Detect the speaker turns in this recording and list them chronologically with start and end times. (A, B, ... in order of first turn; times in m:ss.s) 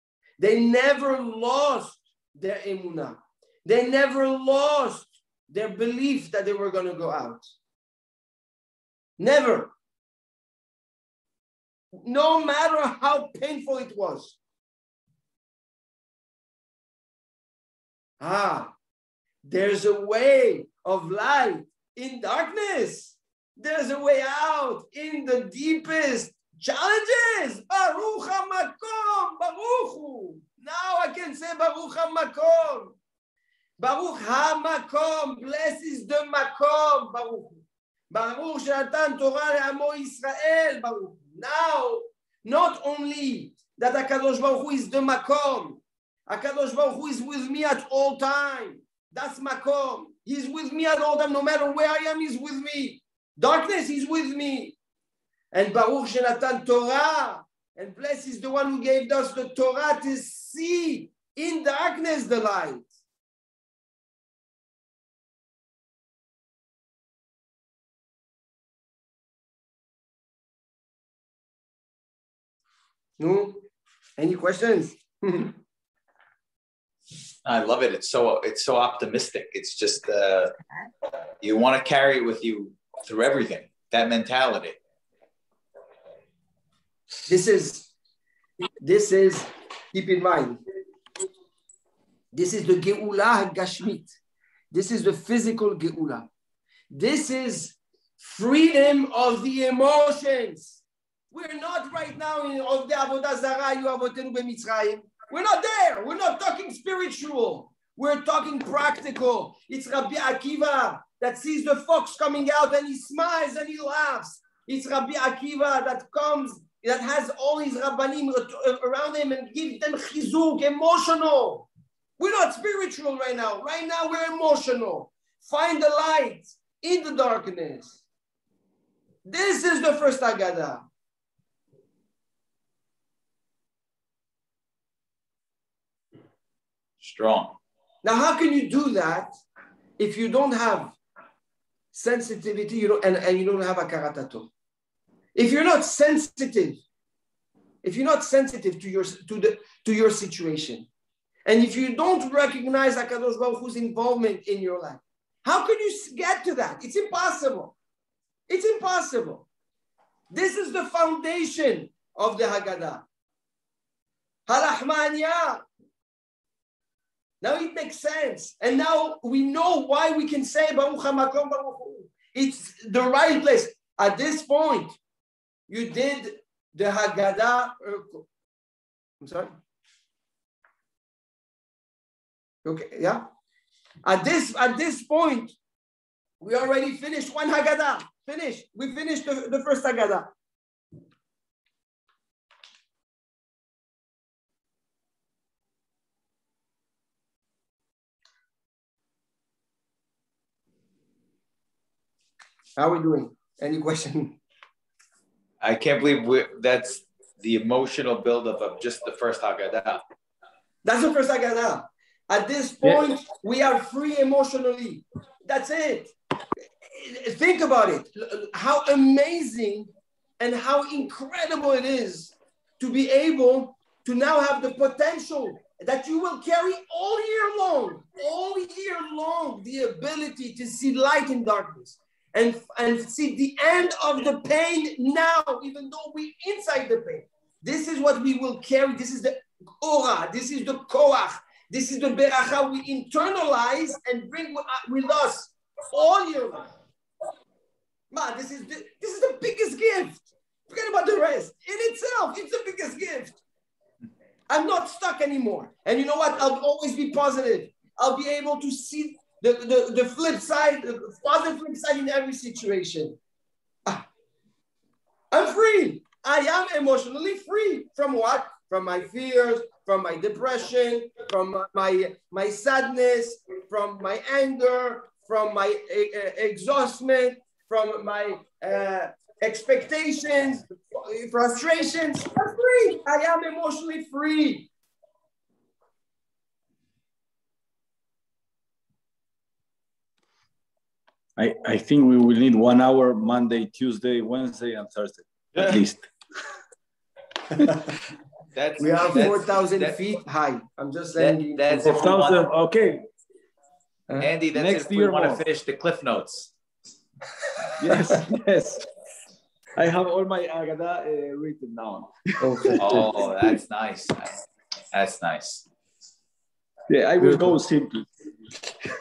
0:00.4-0:07.5 A
0:09.2-0:09.7 A
0:12.0-0:14.4 A
0:18.2-0:18.7 A
0:19.4-0:33.0 A
0:33.8-0:37.6 A
0:38.1-0:54.8 A
0:55.5-1:02.9 A
1:13.2-1:13.6 A
1:14.2-1:15.6 A
1:17.4-1:20.5 B
1:21.4-1:24.8 B
1:27.3-1:27.9 A
1:28.8-1:30.6 A
1:32.3-1:34.2 A
1:34.7-1:36.3 A
1:36.9-2:08.0 A
2:09.2-2:10.8 A
2:17.0-2:17.6 B
2:18.0-2:19.3 A
2:20.0-2:21.0 A
2:21.9-2:24.5 A
2:25.4-2:26.8 A
2:27.8-2:30.9 A
2:31.5-2:37.8 A
2:38.5-2:39.5 A
2:40.3-2:43.1 A
2:44.5-2:45.6 A
2:47.4-2:55.0 A
2:55.7-2:58.3 A
2:59.2-2:59.5 A
3:02.6-3:03.2 A
3:04.0-3:05.6 A
3:06.4-3:10.3 A
3:22.8-3:24.4 A
3:25.6-3:30.0 B
3:30.8-3:36.1 A
3:37.0-4:06.7 A
4:08.1-4:13.4 A
4:14.5-4:23.2 A
4:25.3-4:44.7 A
4:51.4-4:56.0 C
4:58.6-5:00.0 B
4:58.8-5:02.1 A
5:01.2-5:02.5 B
5:01.8-5:03.0 C
5:04.2-5:06.5 B
5:04.5-5:05.4 C
5:07.8-5:08.8 C
5:09.8-5:13.0 C
5:12.4-5:13.0 A
5:12.8-5:14.3 B
5:14.9-5:15.6 B
5:16.9-5:18.1 C
5:17.2-5:17.6 A